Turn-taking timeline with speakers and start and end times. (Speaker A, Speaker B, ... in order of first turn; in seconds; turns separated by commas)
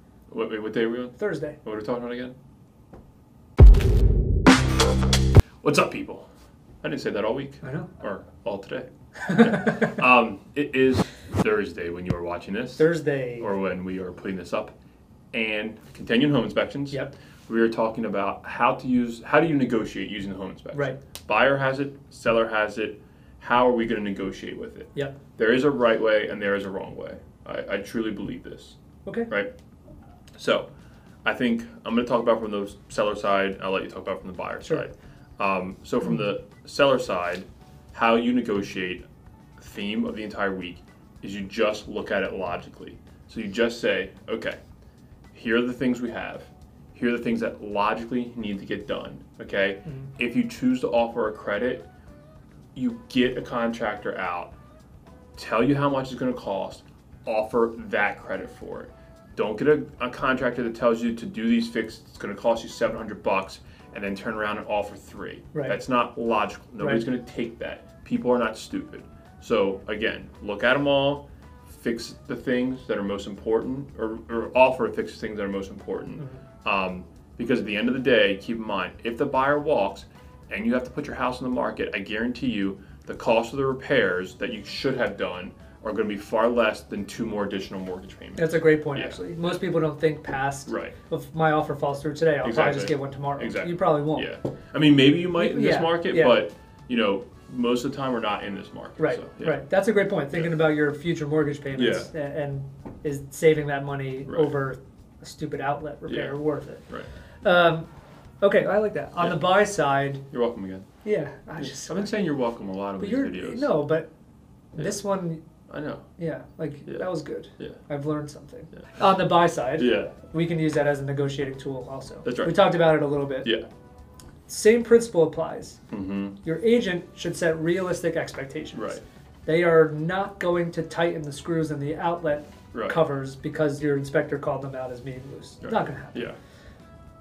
Speaker A: 0.3-2.4, Speaker B: 1.2-1.6, Speaker A: 5.6-6.3, Speaker A: 6.8-12.9, Speaker B: 7.6-7.9, Speaker B: 9.2-10.0, Speaker B: 12.8-13.5, Speaker A: 13.4-14.8, Speaker A: 15.3-28.8, Speaker B: 29.1-29.3, Speaker A: 30.4-30.7, Speaker A: 31.2-39.0, Speaker A: 39.6-44.6, Speaker A: 45.3-51.9, Speaker A: 52.8-54.5, Speaker A: 55.4-89.6, Speaker B: 88.4-94.3, Speaker A: 90.7-91.0, Speaker A: 92.4-99.6, Speaker B: 95.4-96.4, Speaker B: 99.0-106.8, Speaker A: 101.7-102.1, Speaker A: 106.1-106.4, Speaker B: 107.4-107.9, Speaker B: 108.4-110.2, Speaker A: 110.3-110.9, Speaker B: 111.0-112.1, Speaker A: 111.6-113.7, Speaker B: 113.0-114.1, Speaker B: 114.8-115.4, Speaker A: 115.7-116.0, Speaker B: 116.2-123.5, Speaker A: 119.8-120.1, Speaker A: 122.2-122.7, Speaker B: 124.5-125.8, Speaker A: 125.9-126.4, Speaker B: 126.4-136.3, Speaker A: 128.7-129.0, Speaker A: 132.7-133.0, Speaker A: 135.6-136.4